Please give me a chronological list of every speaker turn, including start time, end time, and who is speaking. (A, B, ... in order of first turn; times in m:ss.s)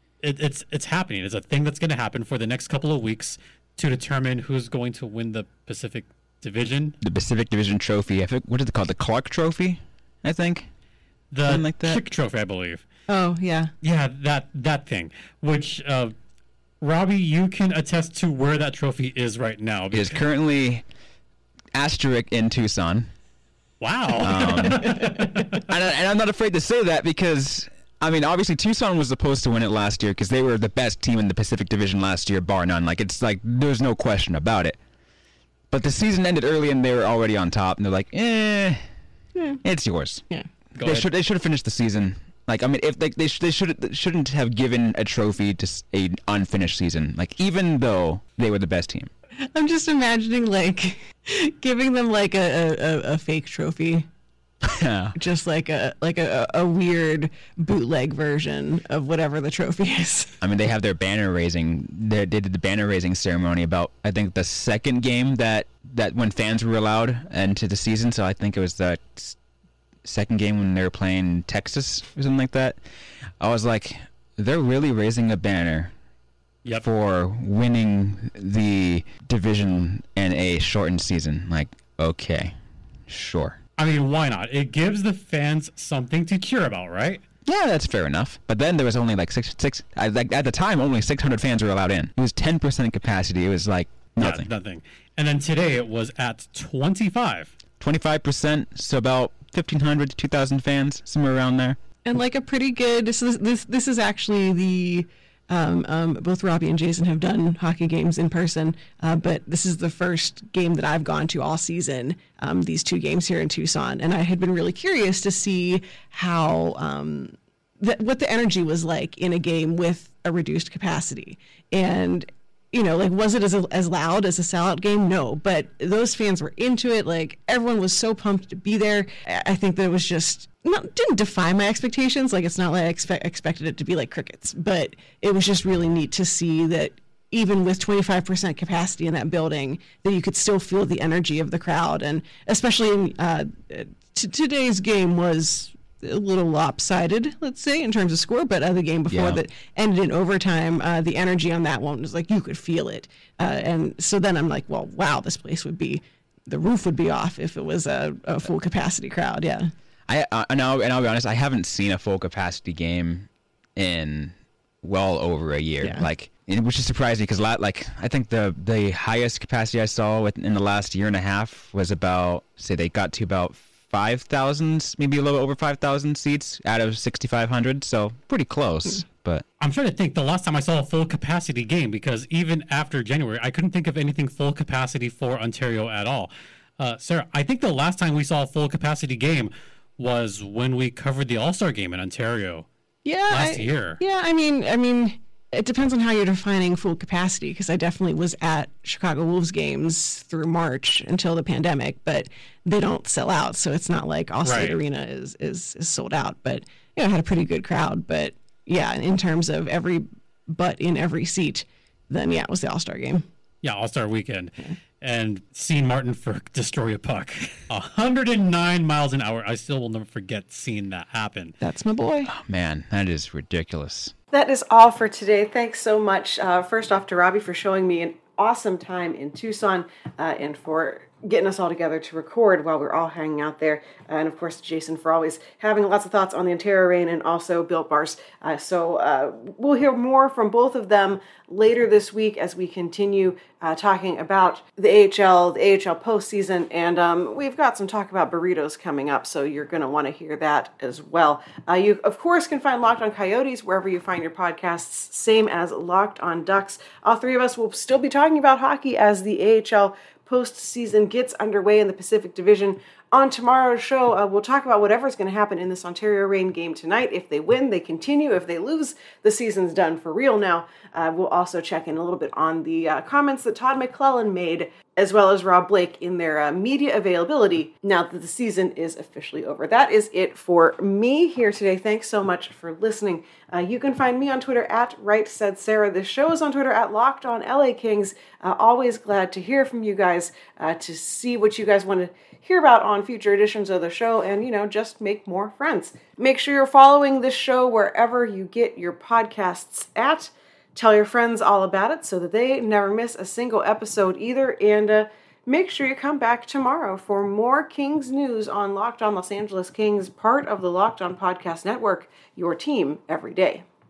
0:00.2-0:07.0 A
0:07.0-0:10.7 B
0:11.3-0:12.8 A
0:11.4-0:12.0 B
0:13.1-0:13.7 C
0:13.8-0:16.1 A
0:16.8-0:20.2 A
0:19.9-0:20.8 B
0:21.7-0:23.1 B
0:23.8-0:25.6 A
0:24.2-0:34.8 B
0:35.7-0:38.8 B
0:39.3-0:39.6 C
0:39.6-0:40.2 B
0:40.8-0:41.1 A
0:40.8-0:49.1 B
0:49.4-0:54.1 C
0:54.6-0:55.2 B
0:55.2-1:00.3 C
1:00.4-1:09.4 B
1:10.0-1:12.8 B
1:13.4-1:15.9 B
1:16.8-1:22.6 B
1:23.1-1:23.6 B
1:23.8-1:27.2 A
1:27.4-1:34.5 B
1:34.2-1:37.5 A
1:37.8-1:41.8 B
1:42.0-2:39.7 C
2:29.1-2:29.4 B
2:40.1-2:59.4 B
2:45.8-2:46.1 C
2:59.6-3:12.7 A
3:13.0-3:33.2 C
3:13.3-3:14.0 A
3:24.4-3:24.8 A
3:33.6-3:41.5 A
3:41.6-3:42.3 C
3:42.2-3:44.1 B
3:44.3-5:13.6 D